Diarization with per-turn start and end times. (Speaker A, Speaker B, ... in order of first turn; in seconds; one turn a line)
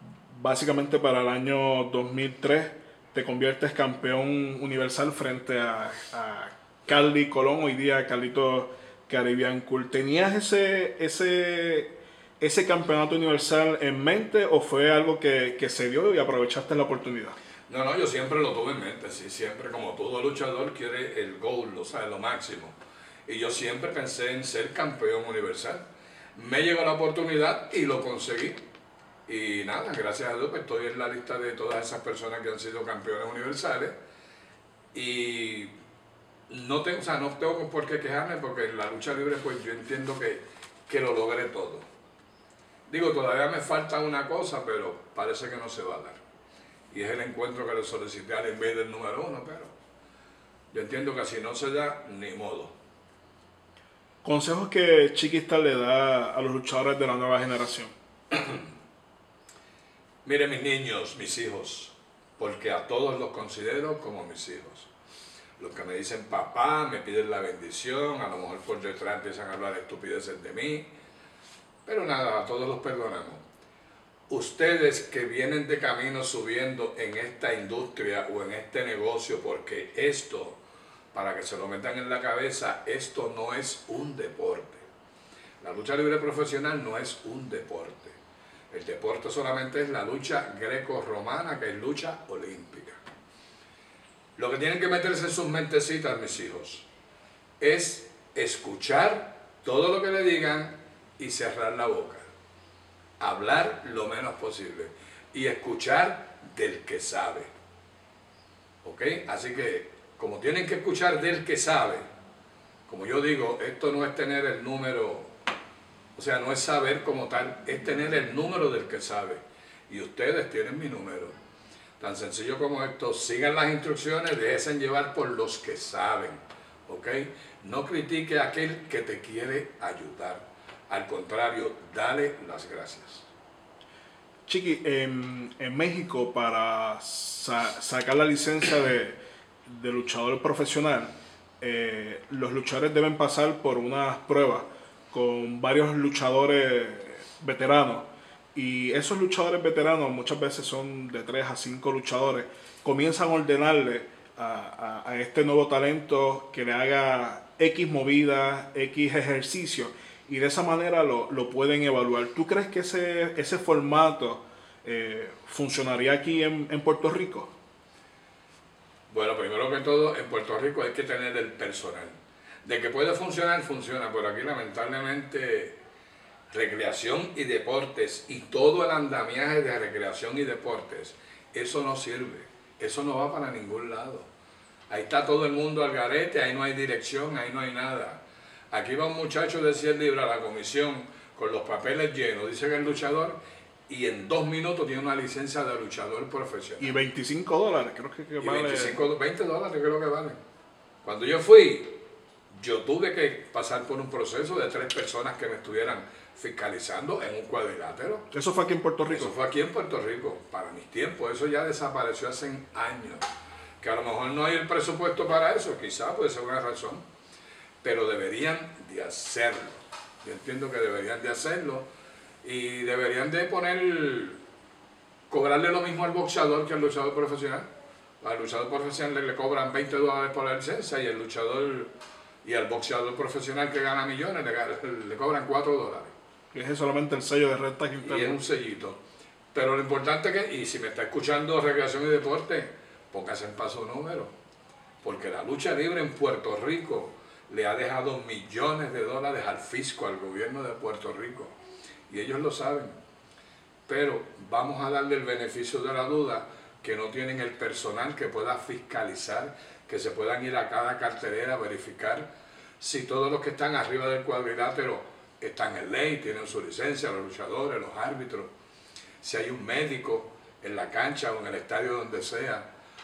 Speaker A: 0.2-17.4
Speaker B: 17.7-28.6
Speaker B: 29.3-34.0
Speaker B: 34.9-35.7
Speaker B: 36.5-41.9
Speaker B: 42.9-46.2
Speaker B: 46.9-49.7
Speaker B: 50.7-52.8
Speaker A: 54.2-57.9
Speaker B: 58.3-58.6
Speaker B: 60.2-64.9
Speaker B: 65.6-70.9
Speaker B: 71.9-73.4
Speaker B: 74.3-80.6
Speaker B: 81.1-84.9
Speaker B: 85.6-88.2
Speaker B: 88.7-93.0
Speaker B: 94.4-96.9
Speaker B: 97.6-102.3
Speaker B: 103.2-107.5
Speaker B: 108.8-112.0
Speaker B: 112.9-115.3
Speaker B: 116.2-121.4
Speaker B: 122.0-133.3
Speaker A: 134.5-167.5
Speaker B: 169.1-175.8
Speaker B: 176.5-184.3
Speaker B: 184.9-196.9
Speaker A: 196.8-199.0
Speaker B: 198.4-200.4
Speaker B: 201.0-208.3
Speaker A: 208.3-209.3
Speaker B: 209.1-213.3
Speaker B: 213.8-217.0
Speaker B: 217.8-221.9
Speaker B: 222.4-224.4
Speaker B: 225.3-227.7
Speaker B: 228.2-231.9
Speaker B: 232.4-236.1
Speaker A: 236.5-238.4
Speaker B: 238.0-239.0
Speaker B: 239.5-244.3
Speaker B: 245.0-251.6
Speaker B: 252.1-252.9
Speaker B: 253.9-268.5
Speaker B: 269.2-272.7